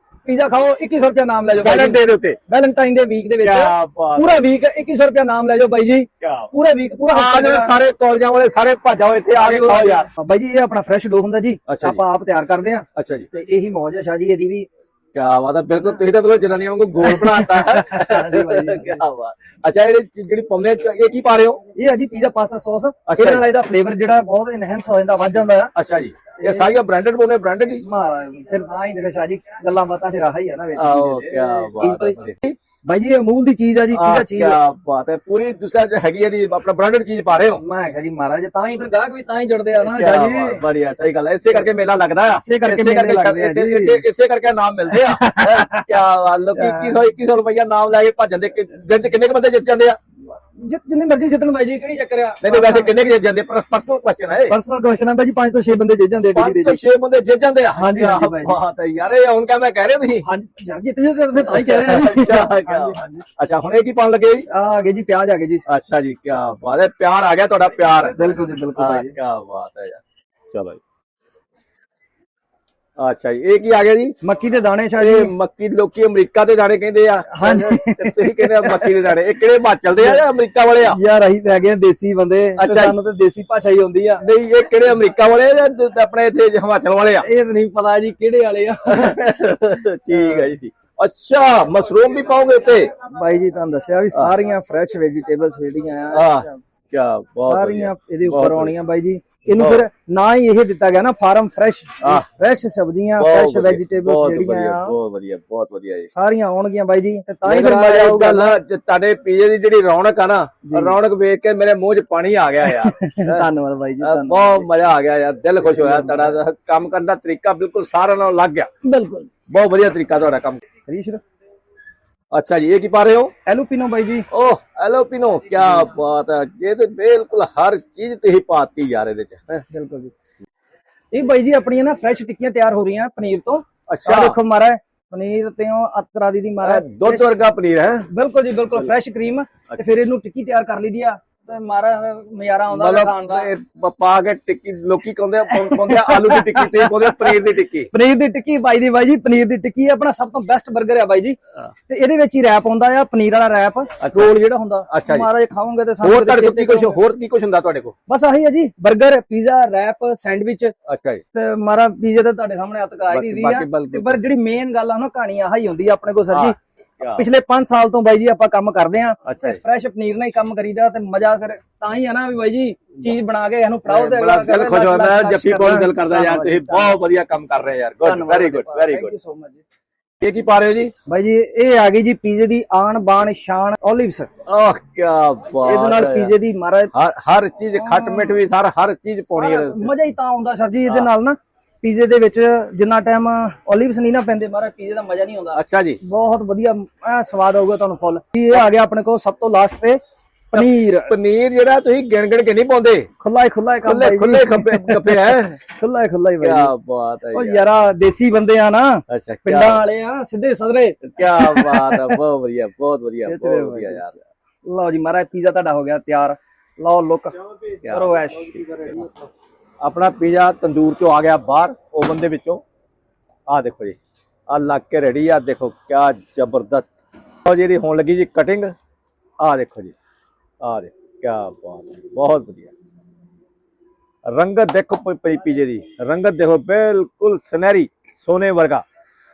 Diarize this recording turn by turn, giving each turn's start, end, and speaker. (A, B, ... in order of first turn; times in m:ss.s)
0:00.2-0:07.8 A
0:01.6-0:02.4 B
0:03.4-0:04.4 B
0:06.2-0:06.5 B
0:07.1-0:10.1 B
0:09.4-0:14.7 A
0:11.7-0:12.0 B
0:13.0-0:13.3 B
0:15.1-0:21.6 B
0:17.0-0:19.0 A
0:21.8-0:25.7 A
0:23.1-0:23.5 B
0:25.8-0:27.8 B
0:26.4-0:26.7 A
0:27.8-0:32.2 A
0:30.8-0:32.6 B
0:32.8-0:34.6 A
0:33.9-0:37.6 B
0:37.6-0:40.6 A
0:39.8-0:50.0 B
0:42.3-0:44.0 A
0:44.9-0:45.9 A
0:46.6-0:46.9 A
0:50.6-0:52.9 A
0:52.4-0:54.6 B
0:54.5-0:56.8 A
0:56.3-1:00.3 B
0:57.8-0:58.6 A
1:00.2-1:03.2 A
1:01.4-1:04.5 B
1:04.5-1:05.7 A
1:05.7-1:10.0 B
1:08.1-1:09.1 A
1:10.5-1:10.8 B
1:13.0-1:14.1 B
1:14.2-1:15.3 A
1:15.0-1:21.0 B
1:17.3-1:19.0 A
1:20.0-1:20.2 A
1:20.9-1:24.2 A
1:22.6-1:23.0 B
1:24.2-1:27.3 B
1:27.2-1:29.2 A
1:28.9-1:32.9 B
1:30.1-1:30.5 A
1:33.1-1:36.6 A
1:36.1-1:38.7 B
1:37.5-1:45.0 A
1:39.5-1:39.9 B
1:43.2-1:46.1 B
1:46.1-1:48.6 A
1:47.4-1:53.5 B
1:50.6-1:51.0 A
1:52.6-1:54.6 A
1:54.0-1:58.7 B
1:55.7-1:56.3 A
1:58.8-1:59.3 A
1:59.5-2:00.6 B
2:00.9-2:01.2 A
2:02.3-2:03.3 B
2:03.5-2:04.3 A
2:04.3-2:09.6 B
2:09.7-2:10.1 A
2:11.1-2:17.3 A
2:13.9-2:14.4 B
2:16.6-2:18.1 B
2:18.1-2:23.5 A
2:22.7-2:27.9 B
2:25.5-2:27.4 A
2:27.9-2:31.4 A
2:31.9-2:37.0 A
2:34.0-2:34.4 B
2:34.9-2:35.3 B
2:36.0-2:38.0 B
2:38.1-2:40.7 A
2:40.9-2:41.2 B
2:41.3-2:46.6 A
2:43.1-2:44.3 B
2:46.3-2:47.3 B
2:47.2-2:57.0 A
2:49.3-2:49.6 B
2:53.9-2:59.1 B
2:58.0-2:59.6 A
3:00.2-3:00.9 B
3:01.1-3:04.3 A
3:04.5-3:06.4 B
3:05.6-3:06.9 A
3:06.9-3:09.9 B
3:07.8-3:08.4 A
3:09.4-3:20.0 A
3:15.5-3:16.0 B
3:20.5-3:21.1 A
3:20.5-3:23.1 B
3:23.2-3:26.7 A
3:23.8-3:25.6 B
3:26.4-3:27.7 B
3:27.3-3:32.2 A
3:29.1-3:29.8 B
3:31.0-3:34.1 B
3:33.3-3:37.4 A
3:37.8-3:39.1 B
3:37.9-3:39.1 A
3:39.8-3:42.6 B
3:43.5-3:44.0 B
3:44.5-3:46.9 B
3:47.4-3:48.7 B
3:49.4-3:50.0 B
3:50.6-3:52.7 B
3:54.3-3:58.8 B